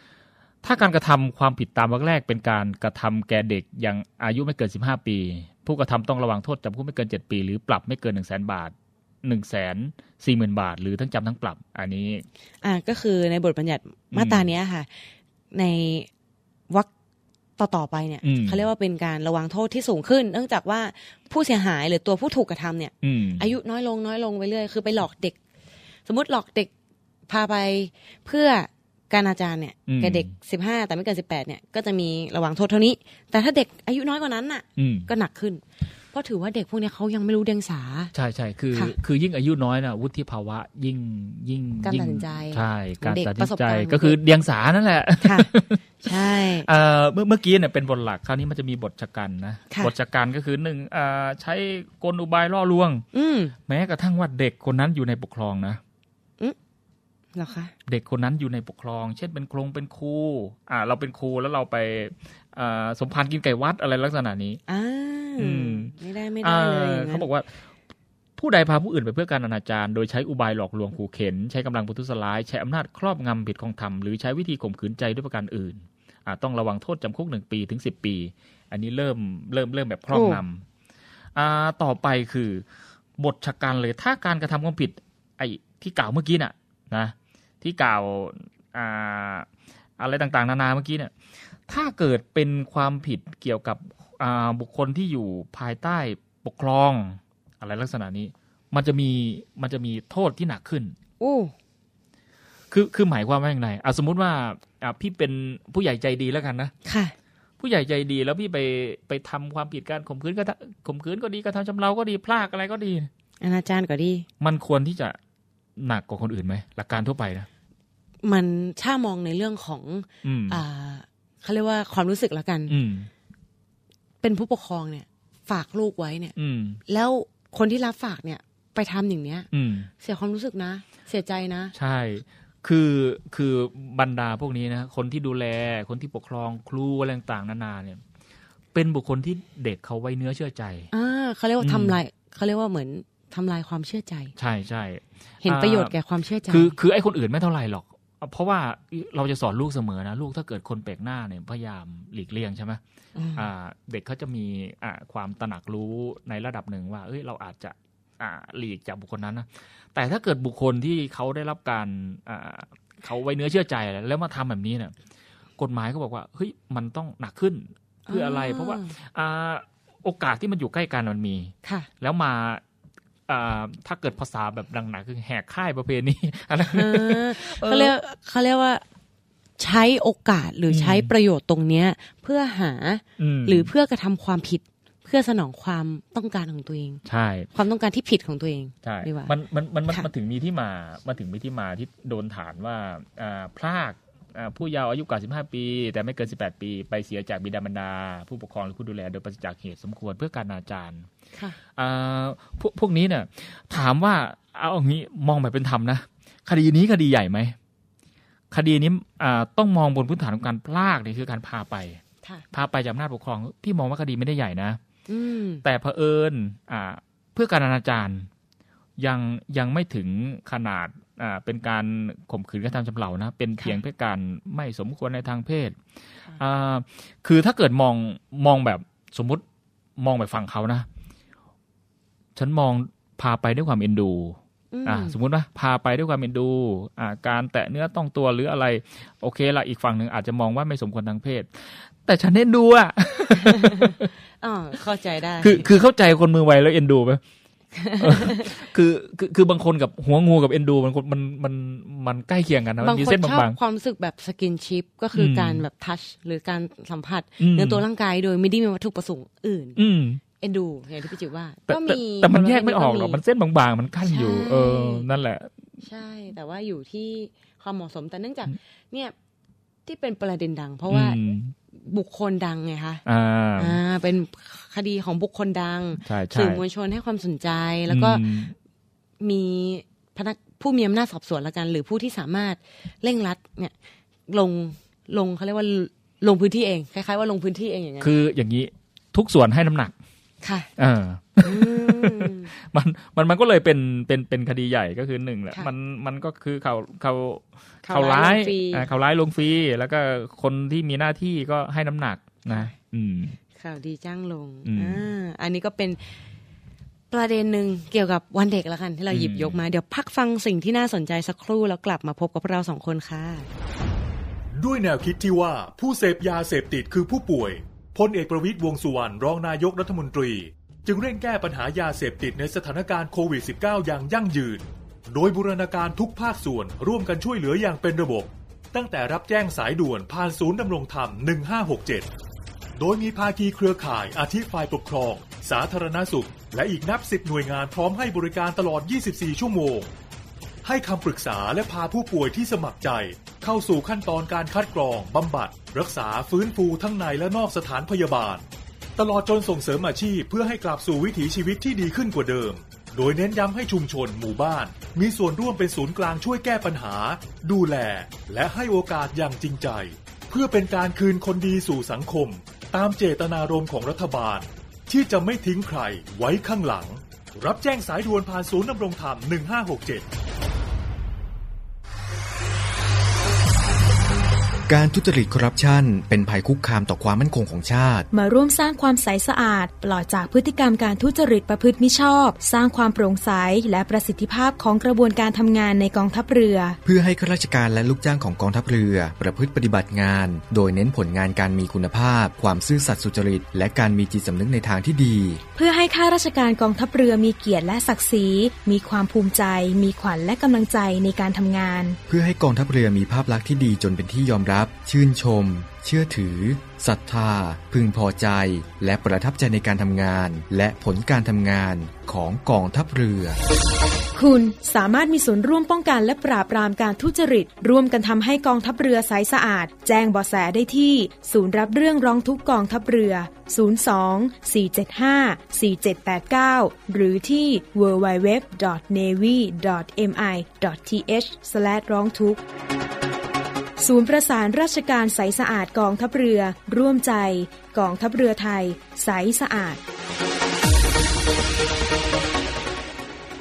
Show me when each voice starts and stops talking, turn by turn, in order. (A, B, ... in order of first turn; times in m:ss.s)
0:00.6-0:12.2 A
0:12.6-0:14.9 B
0:14.1-0:14.5 A
0:15.5-0:16.1 B
0:17.6-0:25.4 B
0:18.2-0:18.6 A
0:23.0-0:23.5 A
0:26.1-0:26.7 B
0:27.3-0:35.6 B
0:29.9-0:30.3 A
0:34.8-0:35.1 A
0:36.1-0:38.1 B
0:38.1-0:53.0 A
0:41.8-0:44.2 B
0:45.2-0:46.7 B
0:53.1-0:53.6 B
0:53.7-0:55.8 A
0:57.4-0:57.7 B
0:57.9-1:04.6 A
1:04.7-1:07.3 B
1:05.4-1:07.6 A
1:08.4-1:20.6 A
1:20.1-1:20.4 B
1:21.4-1:22.6 A
1:23.2-1:29.5 A
1:30.0-1:31.1 A
1:31.7-1:41.0 A
1:41.2-1:41.5 B
1:42.7-1:46.7 A
1:46.8-1:47.2 B
1:47.6-1:53.1 A
1:53.4-1:54.3 B
1:54.4-1:55.2 A
1:55.8-1:57.5 A
1:58.2-2:02.8 B
2:00.2-2:00.6 A
2:02.7-2:03.1 A
2:04.2-2:06.3 B
2:06.4-2:06.8 A
2:06.9-2:09.5 B
2:09.5-2:09.9 A
2:10.0-2:11.7 B
2:11.8-2:18.0 A
2:18.7-2:20.9 A
2:20.9-2:24.3 B
2:21.6-2:22.0 A
2:24.4-2:25.9 A
2:25.4-2:26.7 B
2:26.5-2:32.8 A
2:33.2-2:33.5 B
2:33.4-2:44.9 A
2:45.6-2:52.6 A
2:48.1-2:48.9 B
2:53.3-2:57.9 A
2:56.7-2:58.8 B
2:59.6-3:07.0 B
3:00.7-3:01.1 A
3:03.2-3:03.7 A
3:07.1-3:07.5 A
3:07.6-3:09.3 B
3:08.8-3:21.1 A
3:21.8-3:27.6 A
3:28.5-3:32.0 A
3:32.5-3:34.8 A
3:35.1-3:35.6 B
3:35.6-3:38.3 A
3:39.0-3:45.8 A
3:46.4-3:49.4 A
3:50.0-3:50.9 A
3:52.4-4:04.1 A
3:54.7-3:55.2 B
4:03.4-4:05.7 B
4:05.4-4:07.2 A
4:07.8-4:08.5 B
4:08.0-4:13.6 A
4:12.8-4:19.8 B
4:15.1-4:15.6 A
4:17.4-4:17.8 A
4:19.8-4:20.2 A
4:20.4-4:23.2 B
4:21.7-4:25.5 A
4:24.0-4:25.1 B
4:25.8-4:29.1 B
4:29.9-4:31.2 B
4:30.9-4:31.5 A
4:31.7-4:33.0 B
4:33.1-4:33.8 A
4:33.6-4:38.2 B
4:36.0-4:36.6 A
4:37.9-4:38.5 A
4:39.2-4:43.7 B
4:44.3-4:48.1 B
4:48.0-4:49.9 A
4:50.4-4:50.7 B
4:50.8-5:03.4 A
4:51.4-4:52.5 B
4:57.8-4:58.9 B
5:02.5-5:02.7 B
5:03.6-5:06.0 B
5:04.6-5:05.0 A
5:07.1-5:13.5 B
5:09.1-5:09.6 A
5:14.5-5:32.1 C
5:32.8-5:39.9 C
5:40.6-5:48.5 C
5:49.0-6:10.1 C
6:14.7-6:18.1 D
6:18.1-6:26.8 E
6:26.8-6:35.4 D
6:35.6-6:42.0 E
6:42.1-6:53.4 D
6:54.2-7:12.4 E
7:13.8-7:19.8 E